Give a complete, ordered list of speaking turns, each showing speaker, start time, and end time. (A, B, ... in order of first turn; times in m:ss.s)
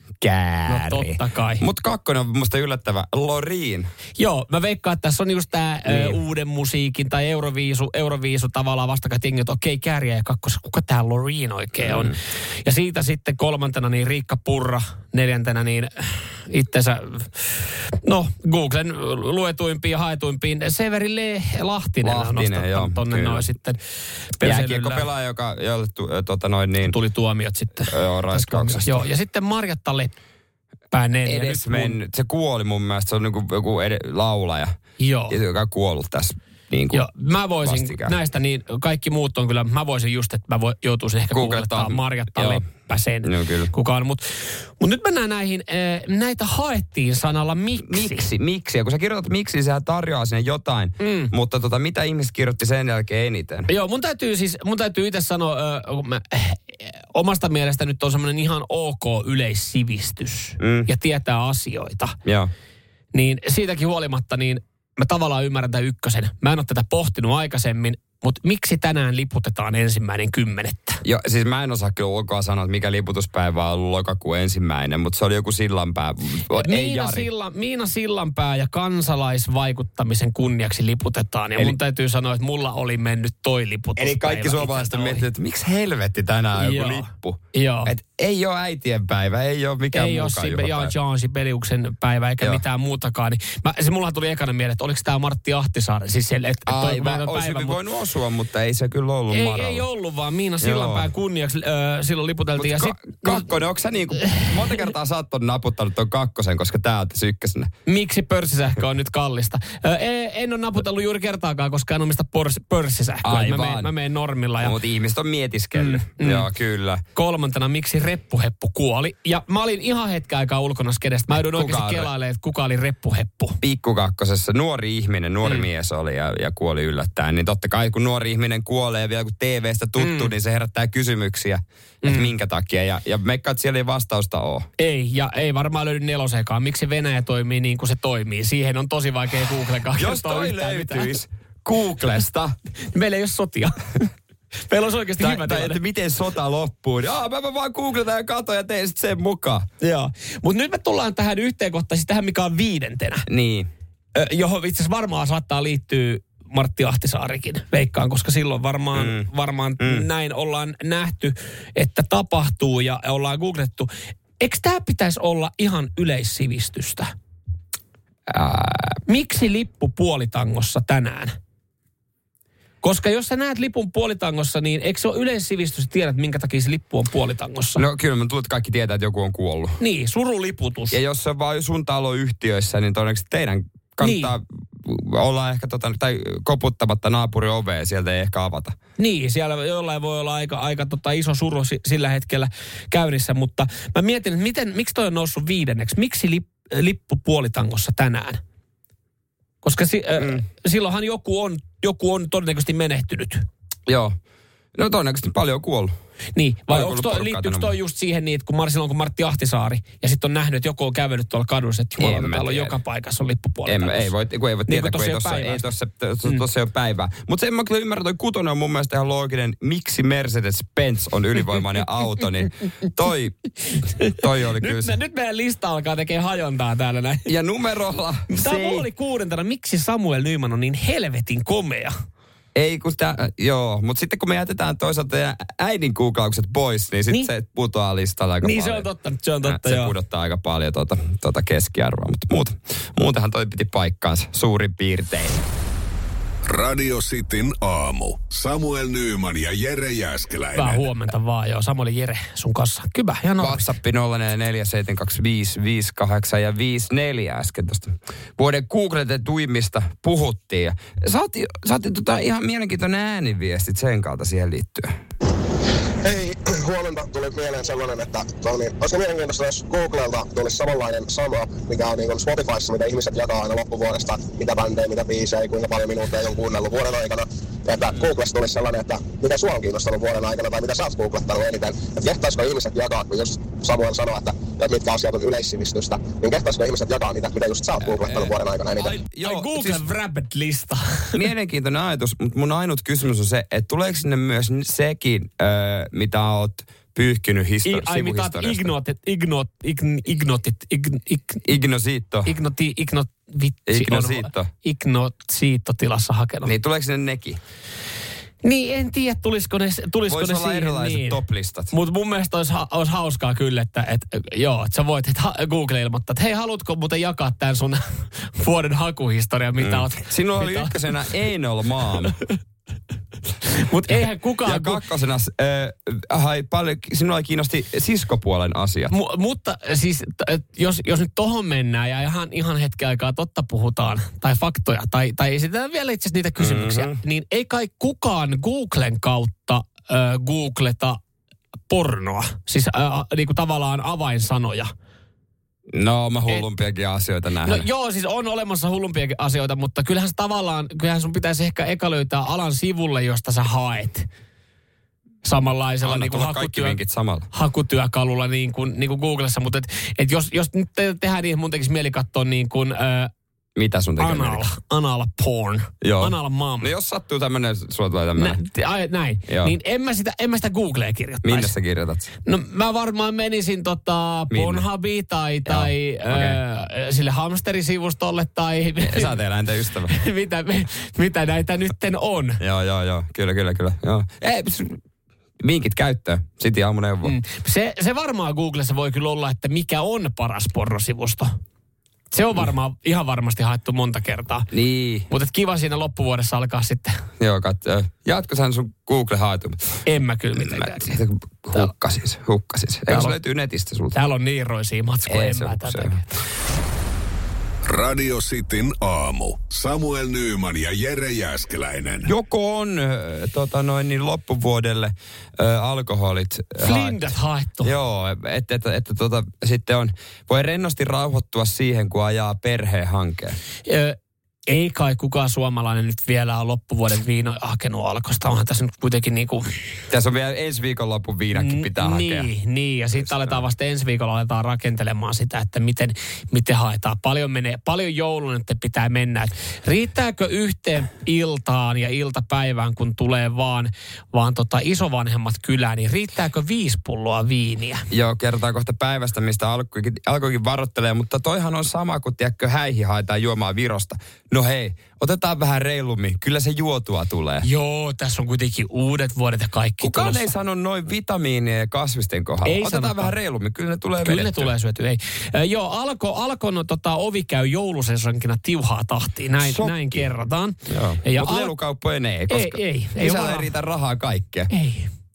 0:00.2-0:03.9 A
0:00.7-0:01.6 B
0:04.2-0:23.8 B
0:05.9-0:06.2 A
0:11.8-0:12.2 A
0:22.0-0:23.5 A
0:24.3-0:25.1 B
0:24.4-0:27.0 A
0:26.8-0:30.1 B
0:27.9-0:29.1 A
0:30.9-0:32.0 B
0:31.3-0:34.8 A
0:35.0-0:35.4 B
0:35.3-0:37.1 A
0:36.9-0:48.3 B
0:37.6-0:38.2 A
0:41.3-0:42.6 A
0:43.2-0:43.7 A
0:47.8-0:53.7 A
0:51.0-0:51.3 B
0:53.7-1:02.2 B
1:00.6-1:00.9 A
1:02.2-1:02.5 A
1:03.1-1:11.0 B
1:11.0-1:17.3 A
1:16.5-1:25.3 B
1:24.0-1:30.9 A
1:26.6-1:27.9 B
1:29.9-1:37.8 B
1:36.7-1:39.8 A
1:39.3-1:43.4 B
1:40.6-1:41.1 A
1:42.6-1:47.7 A
1:47.9-1:54.8 B
1:53.2-1:53.9 A
1:54.6-1:57.0 A
1:55.8-1:56.5 B
1:57.2-2:03.6 B
2:01.3-2:02.1 A
2:03.6-2:14.7 A
2:10.0-2:10.3 B
2:12.0-2:12.3 B
2:14.8-2:21.1 B
2:19.9-2:22.6 A
2:22.9-2:24.0 B
2:24.7-2:25.8 B
2:25.2-2:29.7 A
2:29.8-2:33.3 B
2:33.3-2:33.7 A
2:34.2-2:43.9 B
2:38.9-2:39.3 A
2:39.8-2:40.1 A
2:44.4-2:47.1 B
2:48.3-2:49.0 A
2:49.1-2:51.4 B
2:52.8-2:57.8 B
2:57.8-2:59.8 A
2:59.8-3:01.0 B
3:00.9-3:08.8 A
3:04.0-3:04.3 B
3:09.0-3:18.4 B
3:19.6-3:23.5 B
3:20.2-3:20.4 A
3:23.9-3:24.2 A
3:24.8-3:26.0 A
3:26.4-3:34.1 B
3:26.7-3:27.7 A
3:32.0-3:32.8 A
3:33.7-3:43.4 A
3:34.7-3:35.6 B
3:44.0-3:47.3 B
3:44.0-3:45.0 A
3:47.3-3:48.9 A
3:48.3-3:51.9 B
3:52.6-3:58.9 A
3:58.4-3:59.9 B
3:59.4-4:05.4 A
4:06.5-4:10.9 C
4:10.6-4:13.7 B
4:13.4-4:25.0 A
4:26.0-4:49.0 D
4:47.8-4:49.8 A
4:49.2-4:51.2 B
4:51.1-4:58.7 A
4:57.7-5:01.5 B
5:01.4-5:02.3 A
5:02.3-5:06.5 B
5:03.7-5:04.5 A
5:06.4-5:07.4 A
5:08.4-5:20.8 B
5:10.1-5:11.7 A
5:19.6-5:22.2 A
5:23.4-5:24.8 B
5:23.9-5:28.9 A
5:28.9-5:41.0 B
5:36.4-5:37.0 A
5:41.7-5:44.7 B
5:45.7-5:47.7 A
5:47.4-5:54.1 B
5:55.2-5:56.8 B
5:55.8-5:57.3 A
5:57.3-6:03.1 B
6:03.6-6:04.5 A
6:04.0-6:06.7 B
6:05.8-6:08.4 A
6:08.2-6:11.5 B
6:09.3-6:09.5 A
6:11.2-6:12.1 A
6:12.3-6:19.2 B
6:14.3-6:14.7 A
6:15.5-6:16.4 A
6:18.8-6:20.0 A
6:19.9-6:22.4 B
6:22.4-6:24.8 A
6:25.4-6:27.2 A
6:27.0-6:31.4 B
6:32.1-6:34.5 B
6:34.5-6:35.1 A
6:35.1-6:37.0 B
6:37.2-6:39.8 A
6:39.9-6:41.0 B
6:40.4-6:44.0 A
6:42.9-6:43.2 B
6:43.9-6:46.0 B
6:45.1-6:46.0 A
6:47.7-6:52.1 C
6:52.1-7:03.4 A
6:56.6-6:57.7 B
7:03.7-7:04.0 B
7:04.5-7:09.5 B
7:09.9-7:12.3 A
7:11.3-7:27.9 B
7:13.1-7:13.4 A
7:27.9-7:37.5 A
7:37.4-7:40.3 B
7:39.8-7:44.5 A
7:42.4-7:43.1 B
7:44.0-7:51.5 B
7:49.4-7:50.1 A
7:50.7-7:54.5 A
7:52.3-7:53.5 B
7:54.5-7:54.9 B